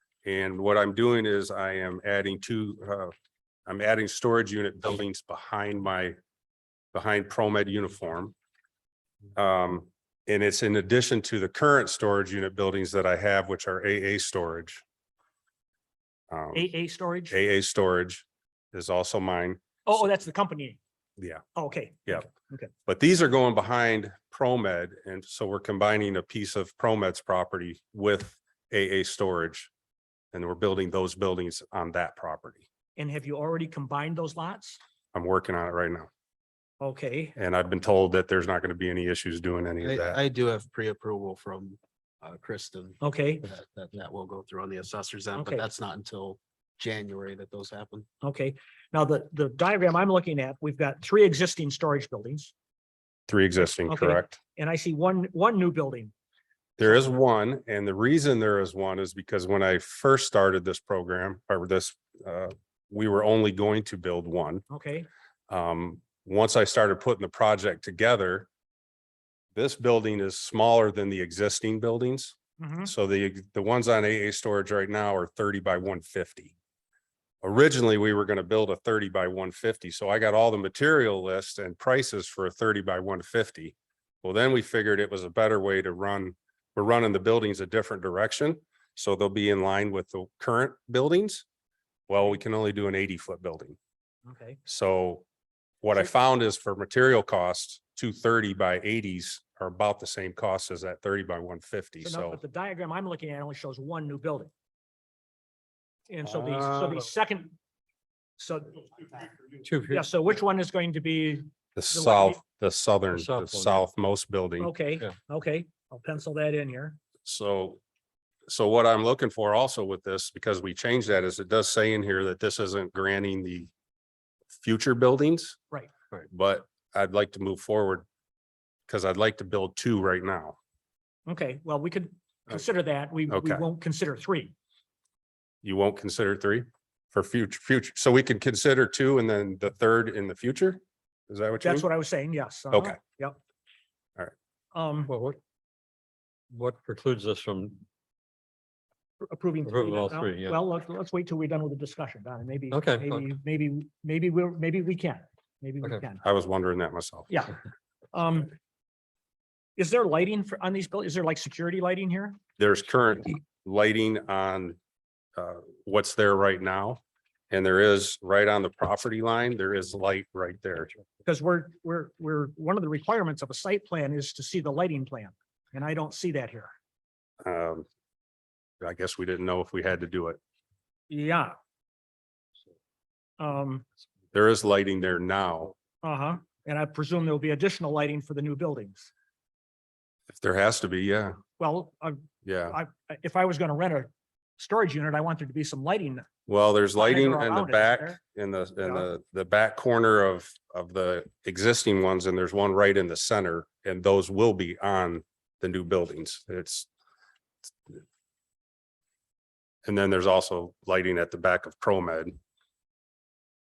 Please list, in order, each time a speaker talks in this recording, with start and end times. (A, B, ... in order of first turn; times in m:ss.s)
0:00.2-0:03.1 A
0:03.7-0:06.2 A
0:06.9-0:08.4 A
0:09.4-0:14.8 A
0:16.3-0:16.7 A
0:16.5-0:17.4 B
0:17.3-0:19.6 A
0:19.9-0:20.8 B
0:21.2-0:21.4 A
0:21.6-0:22.7 B
0:22.9-0:29.7 A
0:30.3-0:32.7 A
0:33.0-0:34.8 B
0:35.1-0:36.1 A
0:36.8-0:37.4 B
0:37.4-0:40.2 A
0:39.8-0:48.1 C
0:43.0-0:43.5 B
0:45.4-0:45.7 B
0:48.2-0:52.5 B
0:53.3-0:54.4 A
0:53.8-0:56.1 B
0:56.8-1:04.7 A
0:56.8-0:57.1 B
1:04.7-1:05.1 B
1:05.5-1:08.5 A
1:09.6-1:16.5 A
1:12.6-1:12.9 B
1:17.4-1:31.4 A
1:32.1-1:33.8 A
1:34.3-1:34.6 B
1:34.7-1:35.2 A
1:35.8-1:42.4 A
1:42.0-1:44.5 B
1:46.1-1:47.6 B
1:46.2-1:47.1 A
1:48.4-1:52.4 B
1:49.6-1:50.1 D
1:51.8-1:54.7 A
1:53.1-1:53.8 D
1:54.6-1:57.0 B
1:57.2-1:57.8 A
1:58.5-2:03.7 A
2:04.6-2:05.6 A
2:06.2-2:08.1 A
2:08.9-2:10.6 A
2:11.3-2:14.5 B
2:13.3-2:13.6 A
2:15.6-2:21.9 A
2:21.6-2:23.4 B
2:22.7-2:23.0 A
2:24.7-2:25.1 B
2:25.1-2:25.4 D
2:26.5-2:27.8 D
2:29.2-2:36.2 B
2:29.6-2:30.6 D
2:32.7-2:33.2 D
2:36.2-2:37.3 A
2:38.1-2:38.5 B
2:39.8-2:42.4 B
2:42.6-2:44.8 A
2:45.4-2:50.9 A
2:51.2-2:56.7 B
2:57.4-2:57.9 A
2:58.8-3:00.4 A
3:01.1-3:01.6 B
3:03.4-3:03.8 B
3:04.3-3:05.8 A
3:06.0-3:09.1 B
3:10.3-3:11.4 A
3:11.6-3:16.3 B
3:12.4-3:12.8 A
3:16.5-3:26.9 A
3:17.0-3:18.2 B
3:18.8-3:19.1 B
3:29.8-3:32.4 A